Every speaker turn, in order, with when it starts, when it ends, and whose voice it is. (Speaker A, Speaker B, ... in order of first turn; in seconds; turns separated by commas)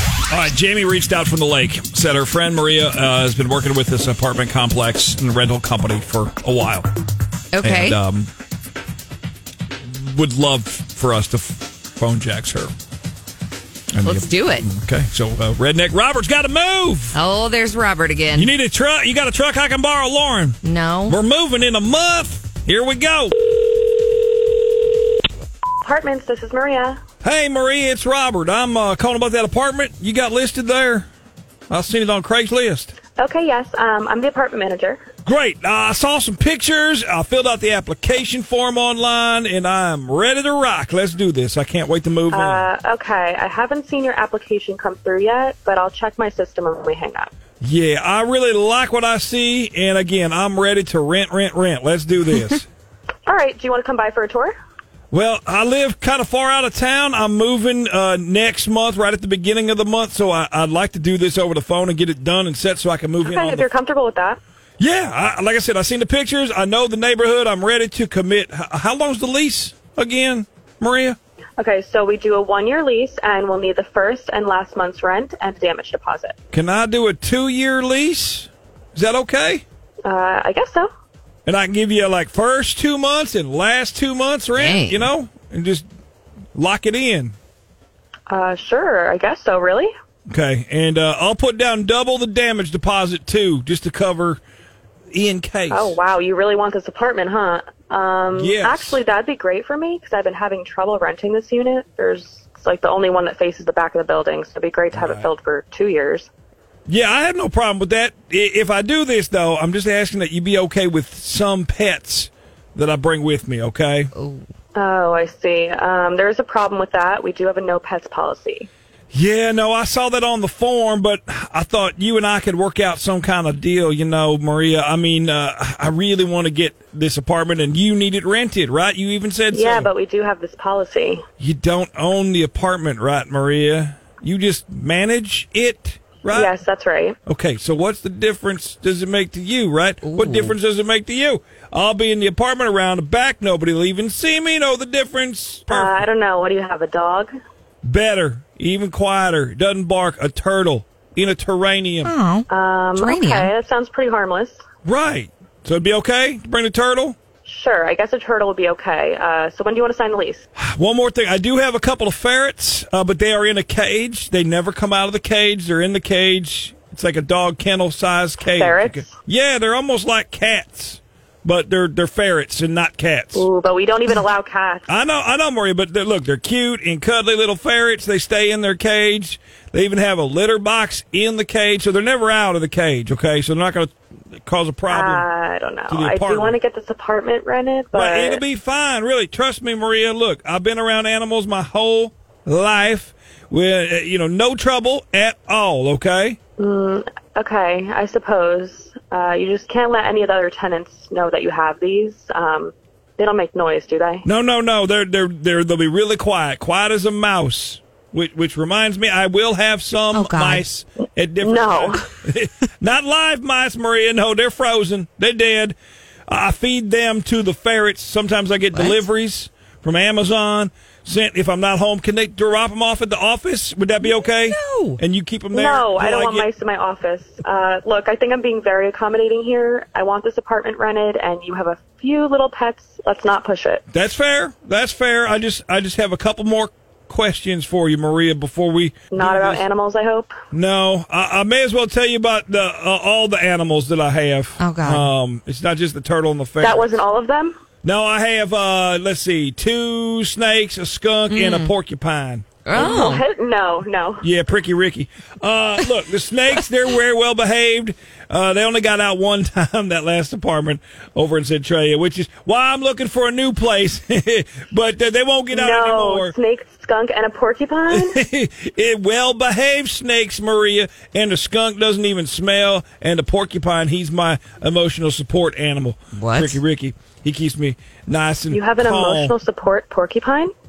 Speaker A: 0.3-6.9, Speaker B: 7.5-8.0, Speaker A: 7.6-8.3, Speaker A: 9.8-12.7, Speaker A: 13.9-17.2, Speaker B: 14.0-14.7, Speaker B: 17.1-18.5, Speaker A: 18.3-23.3, Speaker B: 20.6-21.2, Speaker C: 25.8-27.0, Speaker A: 27.2-31.1, Speaker A: 31.7-32.9, Speaker C: 33.1-35.0, Speaker A: 35.2-42.7, Speaker C: 42.3-47.3, Speaker A: 47.6-52.6, Speaker C: 53.2-54.5, Speaker A: 55.1-63.7, Speaker C: 63.2-64.4, Speaker A: 64.8-71.2, Speaker C: 71.6-76.3, Speaker A: 76.5-79.6, Speaker C: 80.0-80.9, Speaker A: 81.5-85.8, Speaker B: 84.5-85.0, Speaker A: 86.5-87.3, Speaker C: 88.3-89.9, Speaker A: 90.3-94.4, Speaker A: 95.1-96.0, Speaker C: 95.7-106.3, Speaker A: 98.3-99.0, Speaker A: 104.9-105.3, Speaker A: 106.9-114.1, Speaker C: 114.7-118.7, Speaker A: 119.1-129.9, Speaker C: 129.5-131.2, Speaker A: 131.4-136.5, Speaker C: 136.3-137.2, Speaker A: 137.2-146.0, Speaker B: 140.0-140.5, Speaker C: 145.7-147.3, Speaker A: 147.8-152.1, Speaker B: 152.0-153.5, Speaker C: 152.5-154.6, Speaker A: 154.8-157.2, Speaker C: 157.4-160.4, Speaker A: 160.6-173.5, Speaker C: 168.4-169.1, Speaker C: 173.3-174.9, Speaker A: 174.9-185.2, Speaker C: 184.9-188.4, Speaker A: 185.9-186.6, Speaker A: 187.9-196.4, Speaker C: 196.6-204.2, Speaker A: 204.2-215.8, Speaker B: 210.1-210.6, Speaker C: 211.4-212.1, Speaker A: 216.3-226.5, Speaker B: 218.7-219.0, Speaker B: 224.3-225.0, Speaker C: 225.5-233.8, Speaker A: 233.9-239.6, Speaker C: 239.1-240.3, Speaker A: 240.5-246.9, Speaker B: 244.6-245.1, Speaker C: 246.6-247.6, Speaker A: 247.8-253.0, Speaker B: 251.3-251.7, Speaker B: 252.6-253.2, Speaker C: 252.7-254.2, Speaker A: 254.2-266.3, Speaker C: 265.5-268.2, Speaker A: 267.9-279.3, Speaker B: 276.1-276.6, Speaker C: 278.5-280.5